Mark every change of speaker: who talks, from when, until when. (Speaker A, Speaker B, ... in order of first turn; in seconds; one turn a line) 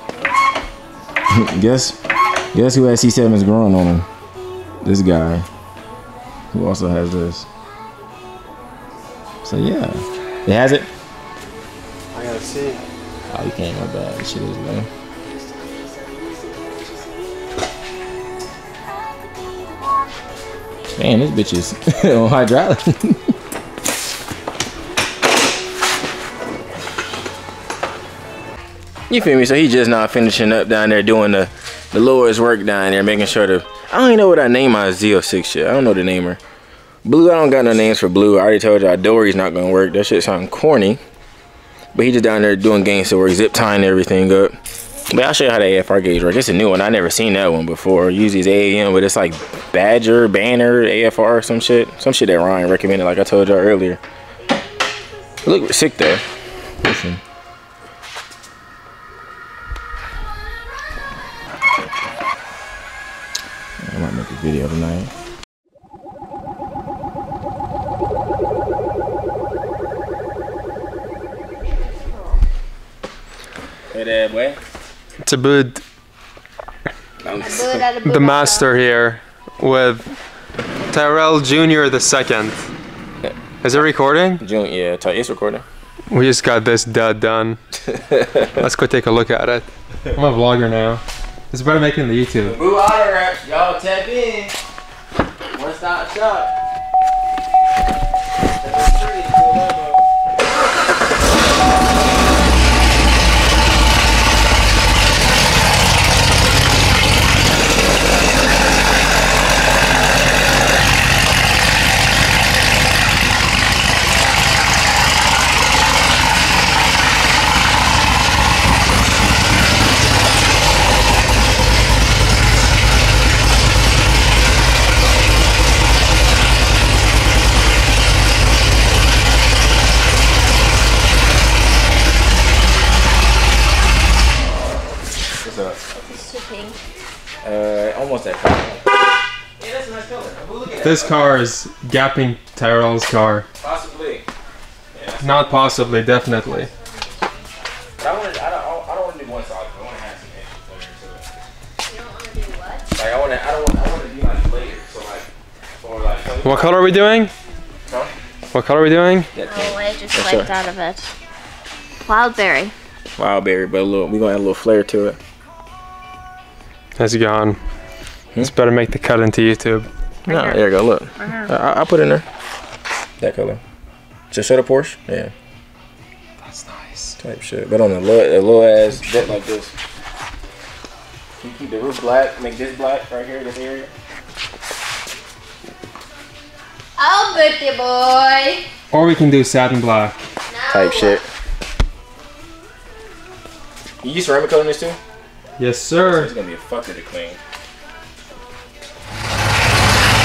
Speaker A: 1.3-2.0
Speaker A: 2.5-4.1
Speaker A: 4.8-5.5
Speaker A: 6.5-7.5
Speaker A: 9.4-10.9
Speaker B: 12.1-12.8
Speaker A: 13.3-14.9
Speaker C: 15.5-17.1
Speaker C: 19.4-19.6
Speaker A: 20.9-23.3
Speaker A: 29.1-36.4
Speaker A: 37.0-41.0
Speaker A: 41.9-44.6
Speaker A: 45.1-54.0
Speaker A: 55.4-56.2
Speaker A: 56.8-57.2
Speaker A: 63.8-65.1
Speaker A: 73.9-74.6
Speaker B: 75.2-75.8
Speaker A: 77.2-77.9
Speaker C: 77.4-78.7
Speaker B: 78.0-80.1
Speaker B: 80.9-82.6
Speaker A: 83.2-85.7
Speaker B: 83.6-84.4
Speaker B: 86.1-87.6
Speaker A: 87.9-88.5
Speaker B: 88.6-92.6
Speaker A: 92.4-94.6
Speaker A: 95.5-96.5
Speaker A: 98.6-100.0
Speaker A: 134.4-135.8
Speaker C: 135.9-136.8
Speaker A: 137.4-138.9
Speaker A: 139.6-141.4
Speaker B: 140.8-143.5
Speaker A: 143.6-144.3
Speaker A: 144.9-146.1
Speaker B: 145.2-146.7
Speaker C: 146.5-147.4
Speaker A: 148.0-151.3
Speaker C: 151.8-152.9
Speaker A: 152.9-157.1
Speaker B: 156.4-157.3
Speaker A: 157.9-158.1
Speaker B: 158.5-159.3
Speaker A: 159.3-160.5
Speaker C: 159.4-161.1
Speaker C: 162.0-162.7
Speaker A: 163.2-165.2
Speaker B: 167.0-167.6
Speaker B: 168.4-169.9
Speaker A: 170.3-172.3
Speaker C: 170.3-170.6
Speaker C: 171.2-171.5
Speaker A: 173.2-173.6
Speaker A: 174.3-175.3
Speaker B: 176.5-177.2
Speaker A: 177.2-179.7
Speaker A: 181.4-183.9
Speaker C: 187.0-188.6
Speaker B: 188.9-190.2
Speaker C: 190.5-191.2
Speaker A: 190.7-191.2
Speaker A: 194.0-195.0
Speaker B: 195.6-196.3
Speaker A: 196.0-197.4